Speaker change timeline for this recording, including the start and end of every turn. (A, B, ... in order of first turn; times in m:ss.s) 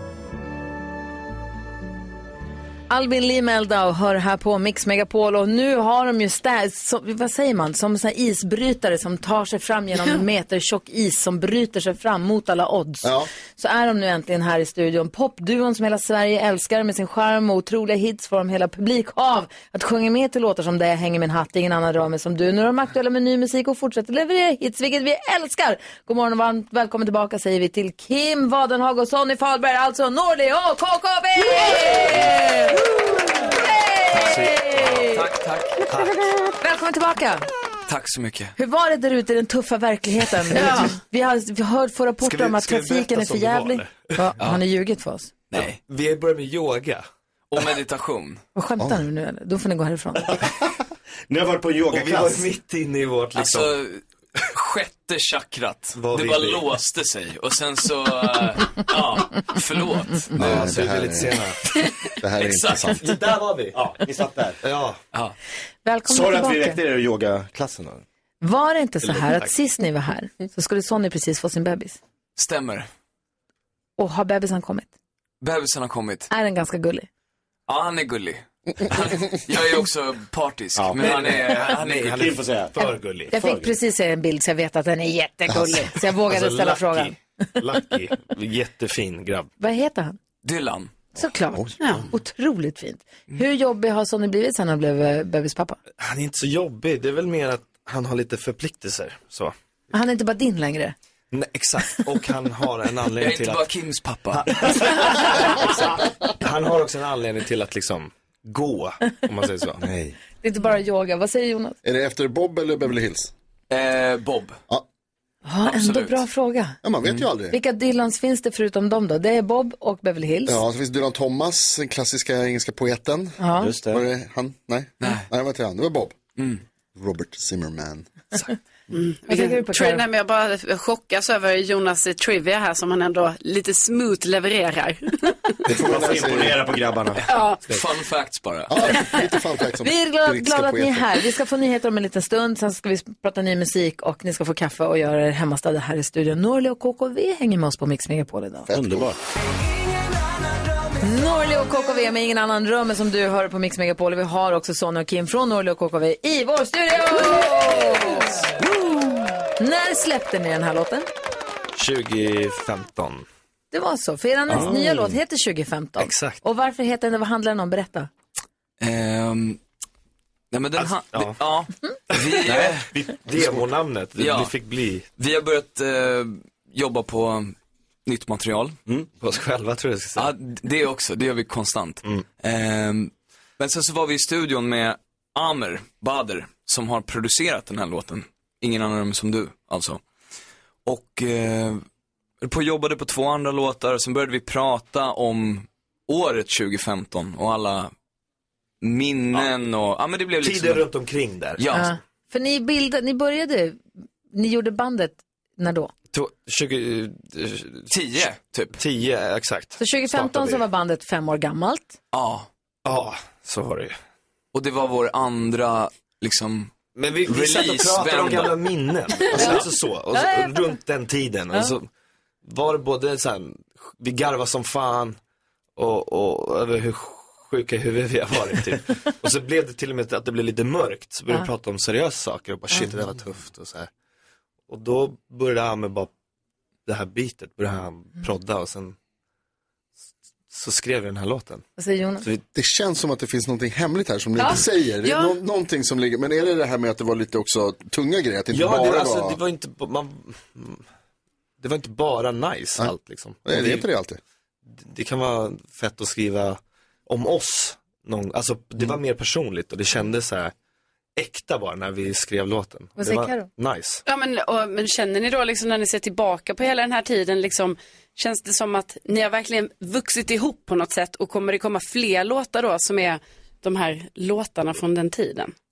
0:02.9-0:35.3 A
0:13.0-0:13.3 B
0:34.1-0:35.0 C
0:35.0-0:35.8 D
0:35.9-0:36.2 C
0:36.6-0:37.5 A
0:37.9-0:38.6 D
0:38.6-0:45.3 A
0:42.2-0:44.2 C
0:45.5-0:45.8 D
0:45.5-0:47.0 C
0:47.5-0:48.4 D
0:48.6-0:50.3 A
0:51.3-0:52.5 E
0:51.9-0:53.8 C
0:53.4-1:00.4 D
0:56.0-0:56.7 C
1:00.4-1:01.4 B
1:00.4-1:01.6 C
1:02.2-1:03.0 B
1:02.3-1:03.1 D
1:02.9-1:03.8 C
1:03.7-1:04.6 E
1:04.6-1:05.0 C
1:05.8-1:06.8 A
1:06.1-1:08.0 E
1:08.4-1:12.0 A
1:09.0-1:09.6 C
1:12.4-1:12.9 D
1:14.0-1:14.9 A
1:15.4-1:16.3 D
1:16.3-1:17.1 A
1:17.7-1:22.2 D
1:20.8-1:21.2 E
1:20.9-1:23.3 C
1:22.0-1:23.7 E
1:22.8-1:27.2 A
1:25.6-1:25.9 B
1:26.1-1:29.5 C
1:29.6-1:30.2 A
1:30.4-1:31.1 D
1:31.2-1:35.8 A
1:36.0-1:39.5 C
1:39.9-1:41.0 A
1:41.3-1:43.7 C
1:43.2-1:44.5 D
1:44.3-1:49.8 C
1:49.8-1:50.2 E
1:50.4-1:51.8 A
1:51.8-1:53.3 B
1:53.7-1:54.6 D
1:55.4-1:56.8 A
1:55.6-1:56.2 D
1:56.8-1:57.6 B
1:57.5-2:00.6 A
2:00.5-2:06.2 B
2:03.4-2:03.7 A
2:03.6-2:04.0 E
2:05.0-2:05.3 D
2:06.4-2:06.6 D
2:07.0-2:08.1 B
2:08.9-2:15.6 F
2:09.3-2:10.0 A
2:15.7-2:16.6 B
2:15.7-2:17.2 E
2:17.3-2:17.6 F
2:17.6-2:18.9 D
2:18.7-2:21.2 B
2:19.8-2:28.7 A
2:28.7-2:29.1 B
2:28.7-2:29.2 E
2:31.0-2:38.5 A
2:39.6-2:41.1 A
2:41.8-2:43.3 C
2:43.7-2:48.1 A
2:44.5-2:44.8 C
2:44.5-2:44.8 E
2:46.0-2:46.4 C
2:48.8-2:49.6 D
2:50.5-2:52.9 D
2:50.8-2:51.4 C
2:52.1-2:55.1 C
2:54.2-2:54.6 D
2:55.2-2:58.8 D
2:59.2-3:00.3 C
3:00.2-3:10.0 D
3:10.8-3:11.8 D
3:12.4-3:17.9 D
3:18.8-3:20.9 D
3:20.4-3:21.6 C
3:21.6-3:21.9 D
3:21.7-3:23.8 A
3:24.3-3:25.9 A
3:26.1-3:27.9 C
3:27.9-3:28.8 D
3:28.8-3:30.6 C
3:29.8-3:32.0 A
3:32.1-3:32.5 D
3:32.8-3:34.0 C
3:34.5-3:38.6 D
3:36.9-3:41.9 C
3:39.3-3:39.7 D
3:39.4-3:39.6 A
3:40.1-3:40.7 A
3:42.4-3:45.2 C
3:45.8-3:53.9 C
3:54.7-3:56.1 C
3:56.9-3:59.0 C
4:00.5-4:01.6 C
4:01.8-4:02.3 A
4:02.6-4:09.4 B
4:04.4-4:05.3 F
4:08.5-4:10.8 C
4:11.6-4:13.9 C
4:13.4-4:14.2 B
4:14.7-4:20.5 C
4:21.2-4:24.0 C
4:23.0-4:23.5 A
4:24.1-4:35.5 F